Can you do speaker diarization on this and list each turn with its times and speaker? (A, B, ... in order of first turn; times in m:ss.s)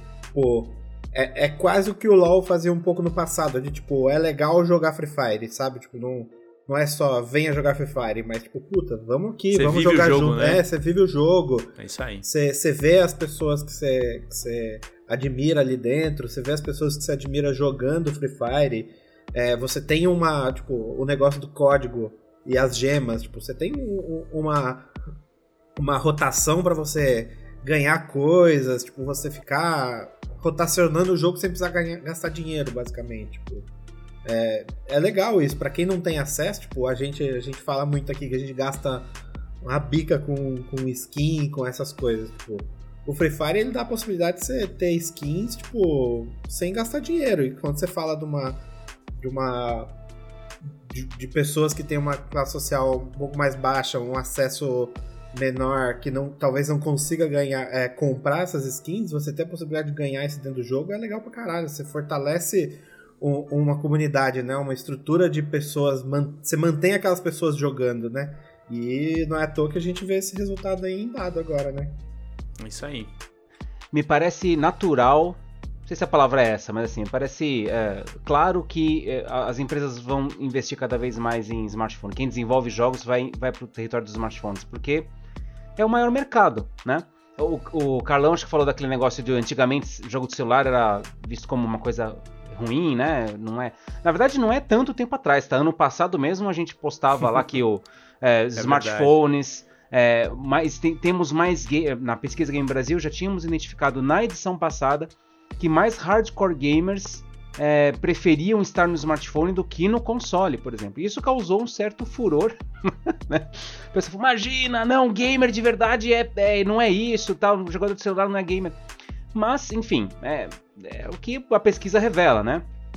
0:00.3-0:24.9 A
0:09.5-0:10.6 B
0:11.8-0:12.2 B
0:25.8-0:33.7 A
0:34.2-0:39.1 A
0:39.6-0:48.6 A
0:49.2-0:49.9 A
0:50.8-1:12.0 A
1:12.6-1:13.1 B
1:13.9-1:25.1 C
1:25.8-1:58.8 C
1:38.6-1:39.2 B
1:59.3-2:02.6 C